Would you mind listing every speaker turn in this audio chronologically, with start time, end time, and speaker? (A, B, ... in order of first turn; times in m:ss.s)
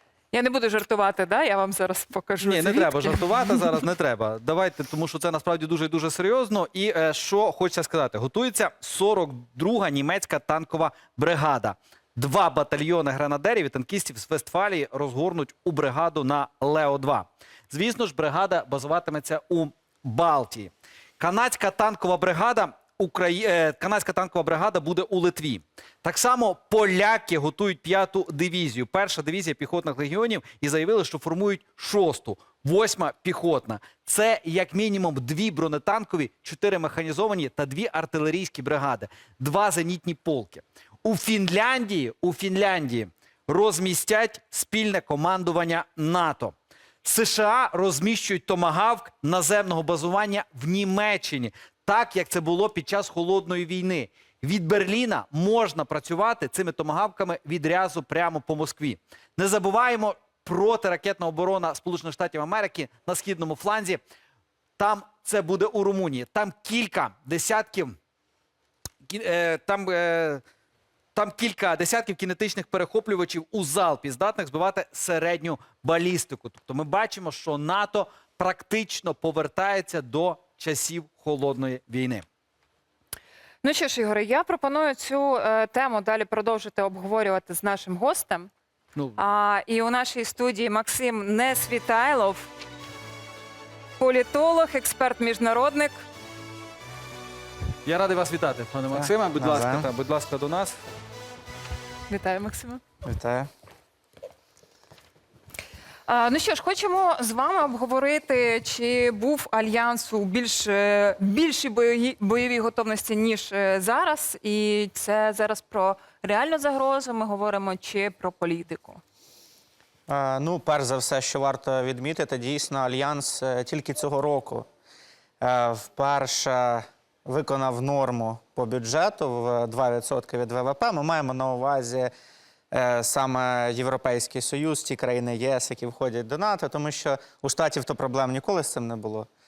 0:00.3-0:03.8 A
0:02.4-1:04.0 B
1:04.8-1:08.0 B
1:09.0-1:10.4 B
1:11.1-1:22.2 B
1:23.6-1:28.5 A
1:29.2-1:32.5 A
1:34.0-1:36.0 A
1:37.8-1:40.8 B
1:38.9-1:39.9 C
1:42.1-1:42.8 A
1:43.0-1:43.5 C
1:46.1-1:59.0 A
2:00.1-2:04.6 C
2:05.4-2:12.1 C
2:12.7-2:19.3 C